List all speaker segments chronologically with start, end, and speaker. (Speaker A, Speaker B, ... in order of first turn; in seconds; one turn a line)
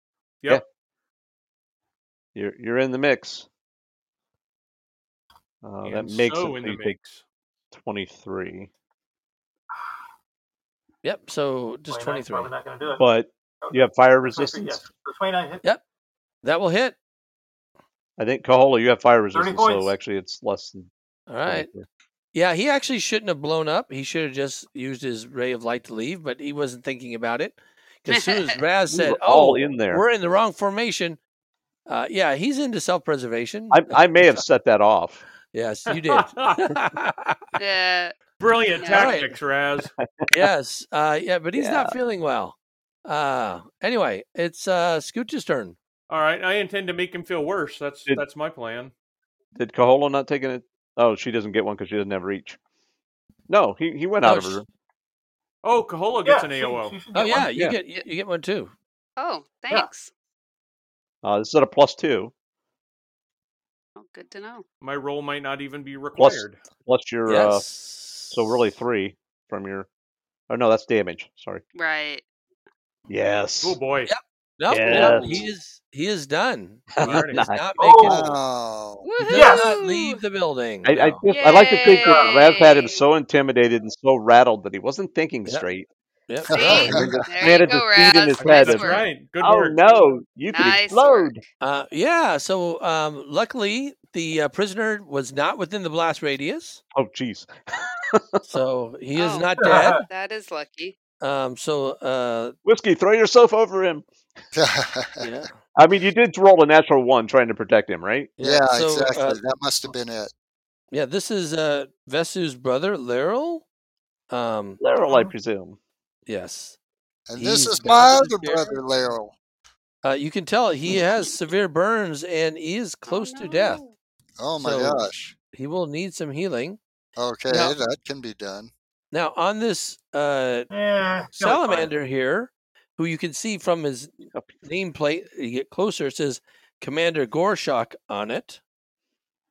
Speaker A: 2.4-3.5
Speaker A: 5.6-7.0
Speaker B: 5.8-7.2
Speaker A: 7.7-8.7
Speaker C: 11.0-12.5
Speaker D: 11.9-13.0
Speaker A: 13.0-14.8
Speaker D: 13.6-15.6
Speaker C: 16.4-16.9
Speaker A: 18.2-20.9
Speaker D: 19.3-19.9
Speaker C: 21.3-21.7
Speaker A: 21.5-21.9
Speaker C: 22.3-31.2
Speaker E: 28.1-28.6
Speaker A: 28.9-30.0
Speaker C: 31.9-34.4
Speaker A: 33.7-35.2
Speaker C: 35.5-37.4
Speaker B: 35.9-36.6
Speaker E: 37.6-38.2
Speaker B: 38.4-39.9
Speaker E: 38.8-39.2
Speaker C: 38.9-39.4
Speaker A: 40.0-40.4
Speaker C: 40.3-45.8
Speaker A: 41.6-41.9
Speaker B: 46.1-48.9
Speaker A: 49.6-52.6
Speaker A: 53.5-54.6
Speaker C: 54.2-54.6
Speaker B: 55.6-57.0
Speaker D: 56.2-57.5
Speaker C: 57.1-58.7
Speaker E: 59.2-60.1
Speaker A: 61.2-62.3
Speaker E: 64.0-64.7
Speaker B: 64.8-66.6
Speaker A: 66.2-67.7
Speaker C: 67.3-68.6
Speaker A: 68.3-69.9
Speaker A: 70.5-71.7
Speaker E: 71.7-72.2
Speaker A: 73.1-73.8
Speaker B: 73.6-74.1
Speaker C: 74.1-78.3
Speaker A: 74.7-75.5
Speaker A: 76.9-77.7
Speaker B: 77.0-77.4
Speaker D: 77.8-78.3
Speaker F: 78.0-79.1
Speaker E: 79.0-80.2
Speaker C: 79.2-81.3
Speaker D: 79.3-79.7
Speaker A: 80.8-85.9
Speaker E: 81.2-83.0
Speaker D: 81.9-82.3
Speaker C: 86.3-87.3
Speaker F: 86.5-87.2
Speaker E: 86.5-89.1
Speaker A: 86.8-91.4
Speaker B: 88.4-90.1
Speaker E: 90.5-91.3
Speaker C: 91.6-96.8
Speaker A: 96.9-98.4
Speaker C: 98.5-100.0
Speaker E: 99.2-101.0
Speaker D: 99.6-100.0
Speaker C: 101.2-102.6
Speaker A: 102.7-104.0
Speaker F: 104.5-105.3
Speaker C: 105.2-105.5
Speaker A: 105.7-108.3
Speaker C: 108.4-109.4
Speaker F: 108.4-110.3
Speaker C: 110.9-113.7
Speaker C: 114.3-114.8
Speaker A: 114.8-115.8
Speaker D: 115.0-115.3
Speaker C: 116.3-116.8
Speaker F: 117.3-119.3
Speaker C: 117.4-118.8
Speaker C: 120.0-123.8
Speaker E: 123.1-123.9
Speaker F: 124.4-125.3
Speaker C: 124.6-126.8
Speaker F: 127.2-128.7
Speaker C: 127.5-127.7
Speaker C: 129.1-130.7
Speaker D: 130.7-131.9
Speaker C: 131.3-138.6